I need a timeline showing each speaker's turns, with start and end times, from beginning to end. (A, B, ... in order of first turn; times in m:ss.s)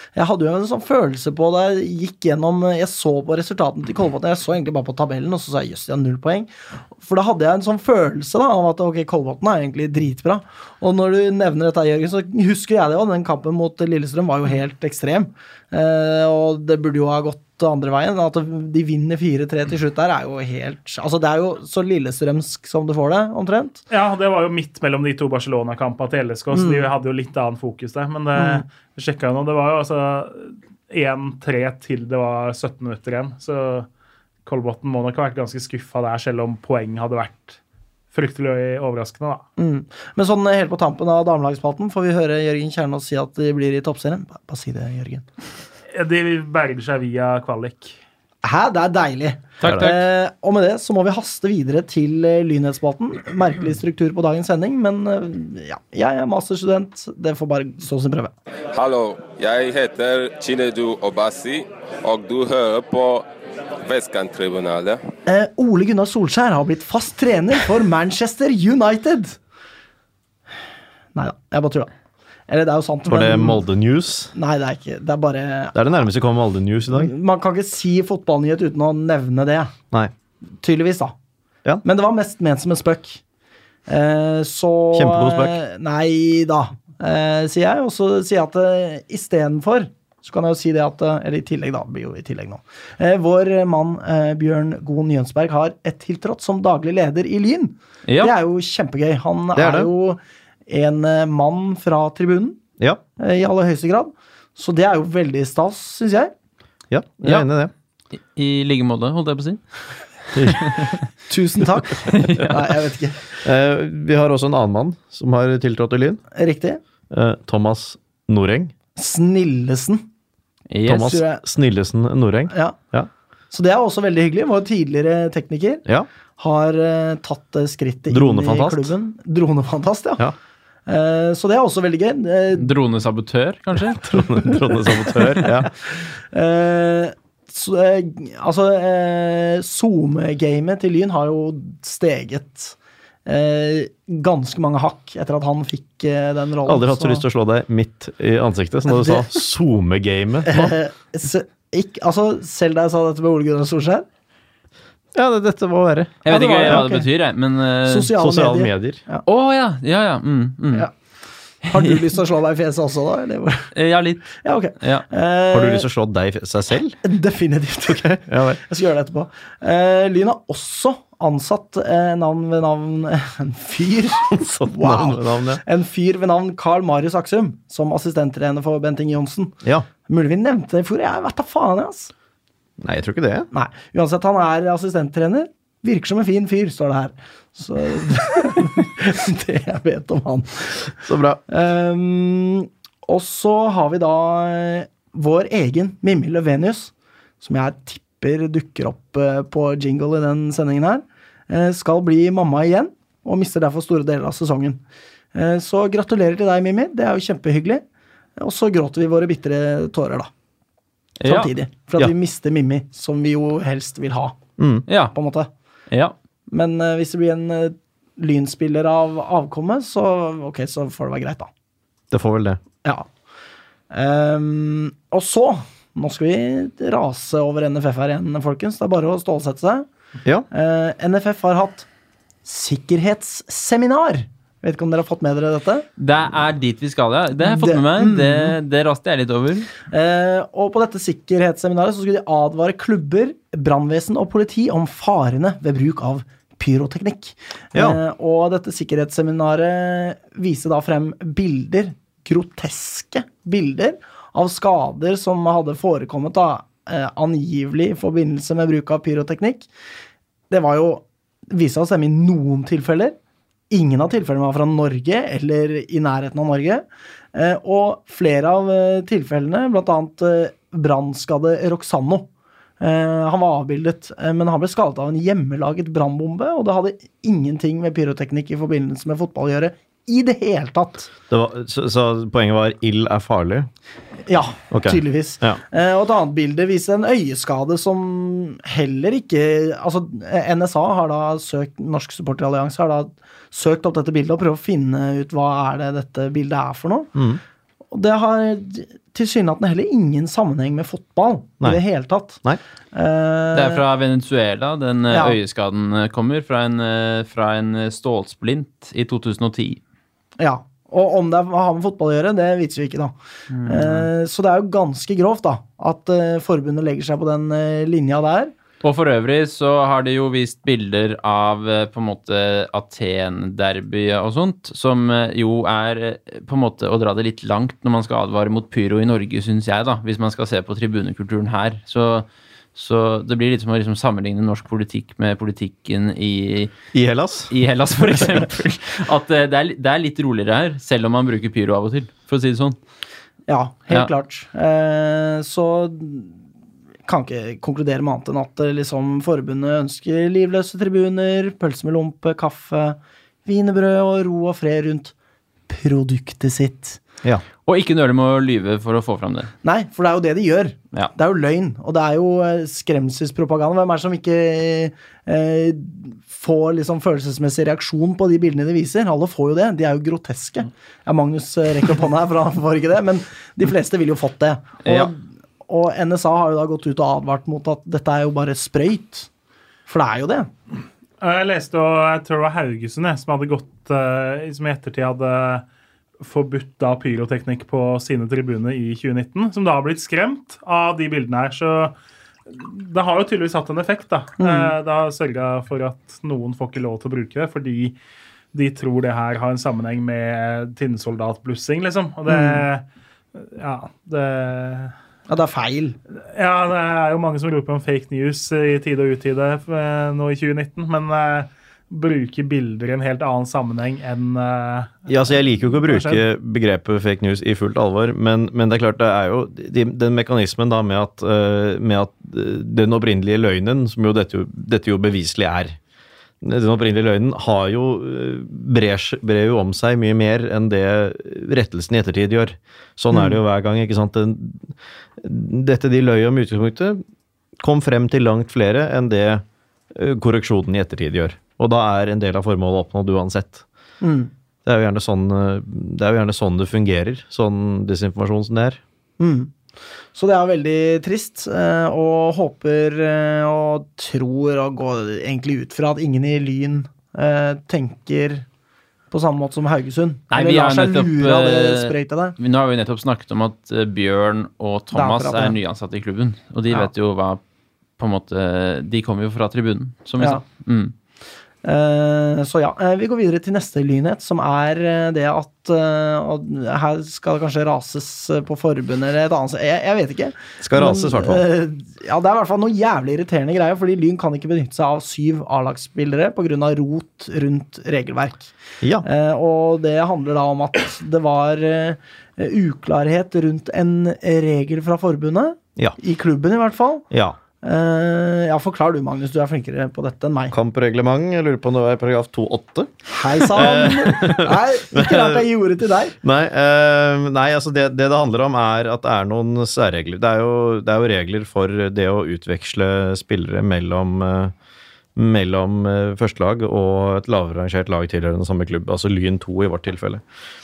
0:00.2-0:23.8 A
0:23.9-0:33.9 B
0:26.5-0:26.9 A
0:28.4-0:28.6 A
0:34.5-0:37.6 B
0:38.1-0:39.4 B
0:39.6-0:45.2 A
0:45.9-0:48.0 B
0:48.4-0:58.3 A
0:49.6-0:50.0 C
0:49.6-0:49.9 D
0:58.7-1:03.2 E
1:03.8-1:05.0 E
1:05.3-1:09.4 A
1:11.2-1:11.9 A
1:12.5-1:13.6 A
1:13.1-1:14.3 D
1:14.3-1:15.8 A
1:15.7-1:17.1 D
1:16.9-1:19.7 A
1:20.6-1:21.1 A
1:21.8-1:23.2 A
1:23.9-1:42.6 A
1:24.9-1:25.6 D
1:38.1-1:38.3 C
1:39.6-1:39.9 D
1:43.2-1:46.3 A
1:46.9-1:47.7 D
1:48.2-1:49.8 C
1:50.4-1:50.9 D
1:50.5-1:51.0 C
1:51.3-1:53.4 A
1:52.0-1:52.6 C
1:53.4-1:56.2 D
1:56.4-1:56.8 A
1:57.1-1:58.7 D
1:59.0-2:00.0 A
2:00.7-2:01.2 C
2:00.8-2:03.1 D
2:01.0-2:01.4 A
2:02.5-2:02.8 A
2:03.5-2:05.8 A
2:06.4-2:10.2 A
2:08.1-2:08.9 D
2:10.9-2:12.7 A
2:12.6-2:14.0 C
2:13.9-2:15.7 D
2:15.9-2:27.2 A
2:26.7-2:30.8 D
2:28.9-2:29.3 A
2:30.5-2:34.1 A
2:35.1-2:36.9 D
2:36.2-2:38.1 C
2:36.3-2:37.1 A
2:37.9-2:39.2 A
2:38.2-2:39.0 D
2:39.3-2:40.9 C
2:41.7-2:43.7 A
2:43.7-2:45.0 C
2:44.4-2:45.9 A
2:45.5-2:47.0 D
2:47.0-3:02.1 A
2:47.9-2:48.6 D
2:54.3-2:55.6 D
3:02.8-3:03.5 D
3:03.5-3:10.9 A
3:11.0-3:11.4 D
3:11.5-3:24.8 A
3:25.3-3:27.8 A
3:28.4-3:30.3 A
3:31.2-3:31.5 C
3:31.2-3:34.4 A
3:34.6-3:34.9 D
3:34.9-3:35.1 C
3:35.1-3:35.5 A
3:36.5-3:41.5 A
3:42.1-3:42.6 D
3:43.9-3:49.9 A
3:50.5-3:51.9 A
3:52.4-3:55.9 A
3:56.0-3:59.7 C
3:57.4-3:58.6 A
3:59.9-4:19.7 A
4:07.7-4:08.0 D
4:20.5-4:23.2 A
4:23.7-4:32.3 A
4:32.8-4:41.1 A
4:41.3-4:43.7 D
4:44.3-4:57.1 A
4:44.7-4:45.6 D
4:57.2-4:57.4 D
4:57.9-5:02.4 A
5:02.9-5:03.8 A
5:03.5-5:09.8 C
5:05.1-5:05.4 A
5:10.4-5:13.1 A
5:13.5-5:14.1 C
5:13.6-5:18.5 A
5:18.8-5:36.7 C
5:36.9-5:37.5 D
5:37.5-5:42.8 C
5:43.5-5:46.4 A
5:47.1-5:55.1 A
5:55.7-5:57.0 A
5:57.7-5:59.5 C
5:59.6-6:19.3 A
6:14.8-6:15.1 C
6:19.9-6:20.5 A
6:21.2-6:25.6 B
6:26.2-6:32.0 B
6:32.5-6:38.0 B
6:34.4-6:34.7 A
6:38.5-6:42.8 B
6:42.3-6:42.6 A
6:43.4-6:44.9 B
6:45.3-6:46.0 A
6:46.3-6:56.2 B
6:55.1-7:05.8 D
7:06.4-7:17.0 D
7:13.1-7:13.4 A
7:17.6-7:23.6 D
7:24.0-7:24.3 A
7:24.7-7:28.8 D
7:29.2-7:29.5 A
7:30.1-7:38.5 A
7:39.1-7:42.4 A
7:40.3-7:47.4 C
7:44.9-7:45.6 A
7:48.0-7:50.9 C
7:51.6-8:08.5 A
8:00.6-8:01.4 D
8:09.0-8:17.1 A
8:17.1-8:17.4 D
8:17.6-8:20.6 A
8:20.5-8:25.5 D
8:23.1-8:26.2 A
8:26.2-8:34.5 D
8:35.2-8:40.2 D